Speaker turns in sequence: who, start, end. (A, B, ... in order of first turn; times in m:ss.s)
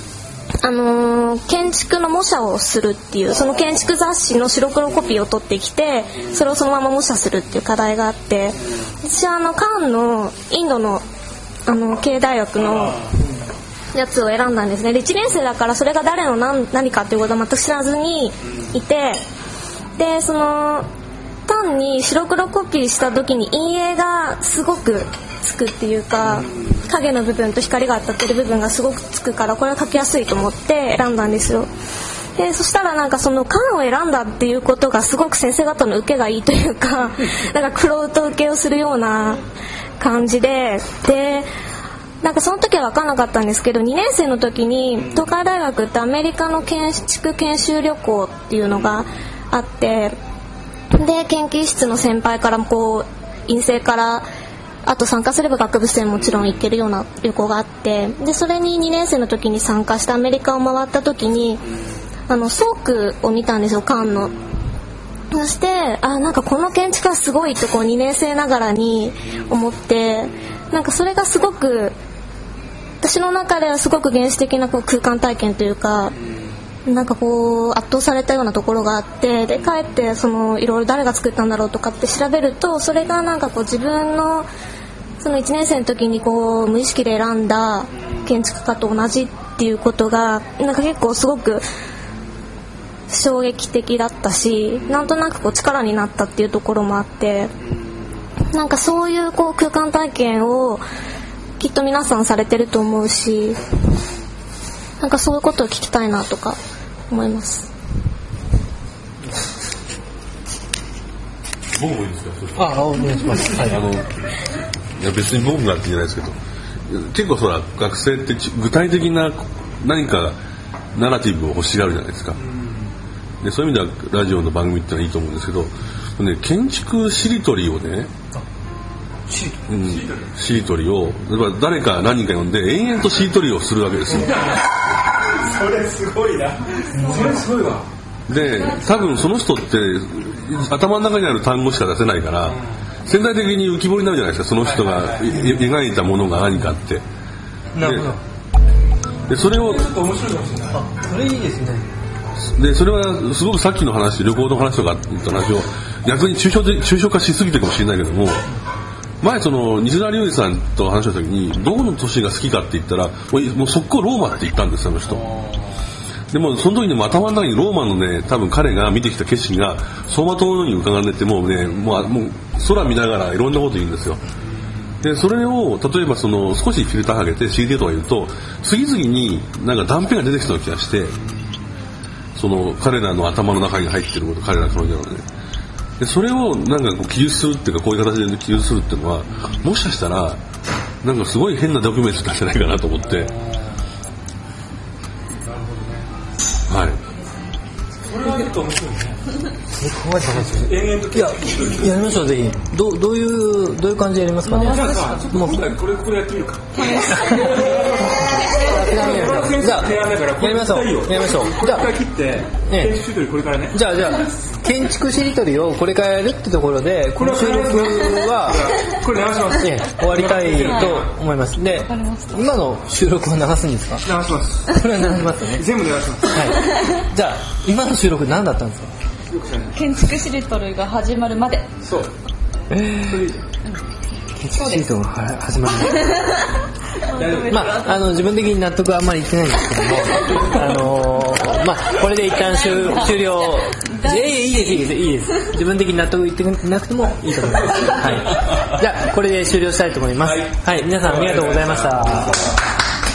0:00.6-0:11.0 A
0:11.7-0:13.1 A
0:13.9-0:19.2 A
0:20.0-0:20.8 A
0:21.5-0:31.7 A
0:32.4-0:39.4 A
0:40.0-0:41.5 A
0:42.2-0:50.2 A
0:51.0-0:54.2 A
0:54.8-1:01.6 A
1:02.3-1:04.4 A
1:05.3-1:11.9 A
1:13.0-1:16.1 A
1:16.8-1:24.5 A
1:25.2-1:31.6 A
1:33.1-1:37.5 A
1:38.5-1:40.8 A
1:41.6-1:43.6 A
1:45.0-1:46.6 A
1:47.1-1:47.7 A
1:51.8-1:52.7 B
1:52.5-1:53.9 C
1:53.6-1:54.0 B
1:55.0-1:56.4 B
1:56.9-2:00.4 B
2:00.9-2:02.4 B
2:02.4-2:02.8 D
2:03.4-2:08.1 B
2:09.3-2:09.6 C
2:09.7-2:14.3 B
2:09.8-2:10.3 D
2:14.2-2:17.8 D
2:18.3-2:27.0 B
2:24.6-2:25.4 D
2:27.7-2:28.2 C
2:27.8-2:28.1 B
2:29.3-2:29.9 B
2:29.6-2:30.8 D
2:30.7-2:31.9 C
2:32.5-2:38.4 B
2:39.2-2:45.2 B
2:46.3-2:54.2 B
2:55.0-3:01.2 B
3:02.4-3:05.2 B
3:06.0-3:10.4 B
3:11.0-3:13.3 B
3:13.0-3:13.5 D
3:15.5-3:16.0 D
3:16.7-3:17.0 B
3:18.0-3:19.2 D
3:19.8-3:25.7 C
3:20.4-3:22.2 D
3:24.6-3:33.8 D
3:26.9-3:27.6 C
3:28.6-3:31.9 C
3:32.7-3:32.9 C
3:33.7-3:38.6 C
3:37.2-3:41.0 D
3:39.6-3:44.0 C
3:41.8-3:42.5 E
3:44.0-3:44.8 D
3:44.7-3:45.6 C
3:45.5-3:46.5 D
3:46.3-3:48.9 C
3:49.3-3:49.8 D
3:49.7-3:51.7 E
3:51.8-3:52.1 D
3:52.7-3:53.0 C
3:53.1-3:53.4 D
3:54.4-3:56.4 C
3:54.5-3:54.9 E
3:57.1-3:57.9 E
3:57.1-3:57.5 D
3:57.5-4:12.5 C
4:02.6-4:04.8 E